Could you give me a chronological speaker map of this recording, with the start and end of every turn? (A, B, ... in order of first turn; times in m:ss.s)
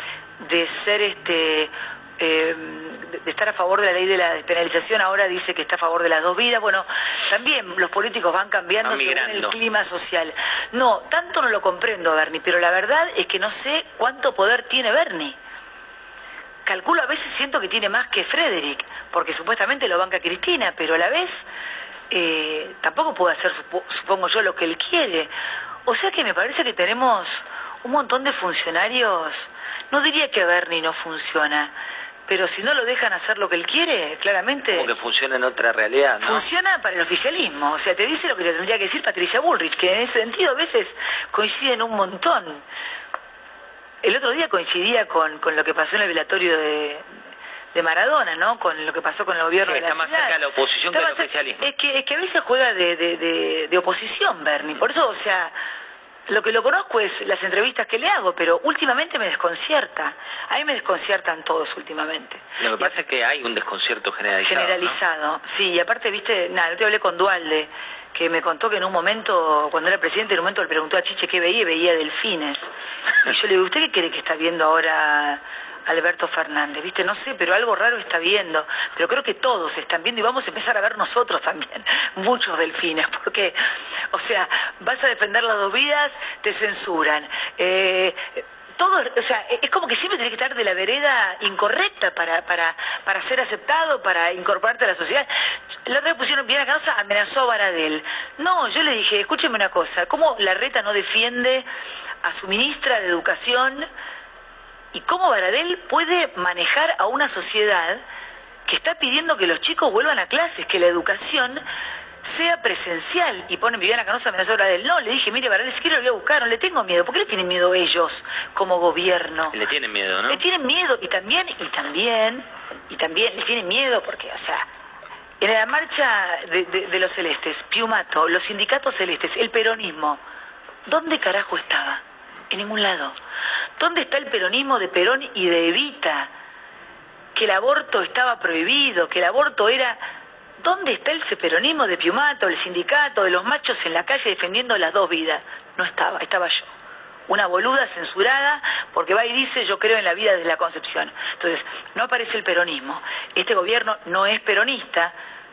0:00.4-0:15.4 A
0:08.8-0:09.6 B
0:16.6-0:21.5 A
0:22.1-0:25.3 A
0:25.8-0:31.7 A
0:32.3-0:34.9 A
0:34.6-0:36.4 B
0:36.2-0:42.6 A
0:44.0-0:47.1 A
0:47.7-0:50.4 A
0:49.6-0:51.6 B
0:50.9-0:55.5 A
0:56.3-1:02.9 A
1:02.6-1:05.0 B
1:04.4-1:12.7 A
1:13.2-1:23.6 A
1:24.1-1:35.3 A
1:35.8-1:41.7 A
1:42.2-1:43.9 A
1:44.9-1:48.0 A
1:48.6-1:51.6 A
1:52.2-1:59.6 A
1:59.5-2:00.4 B
2:00.3-2:04.7 A
2:05.4-2:10.2 A
2:10.8-2:13.2 A
2:13.8-2:16.3 A
2:17.3-2:20.0 A
2:20.6-2:26.7 A
2:27.3-2:35.1 A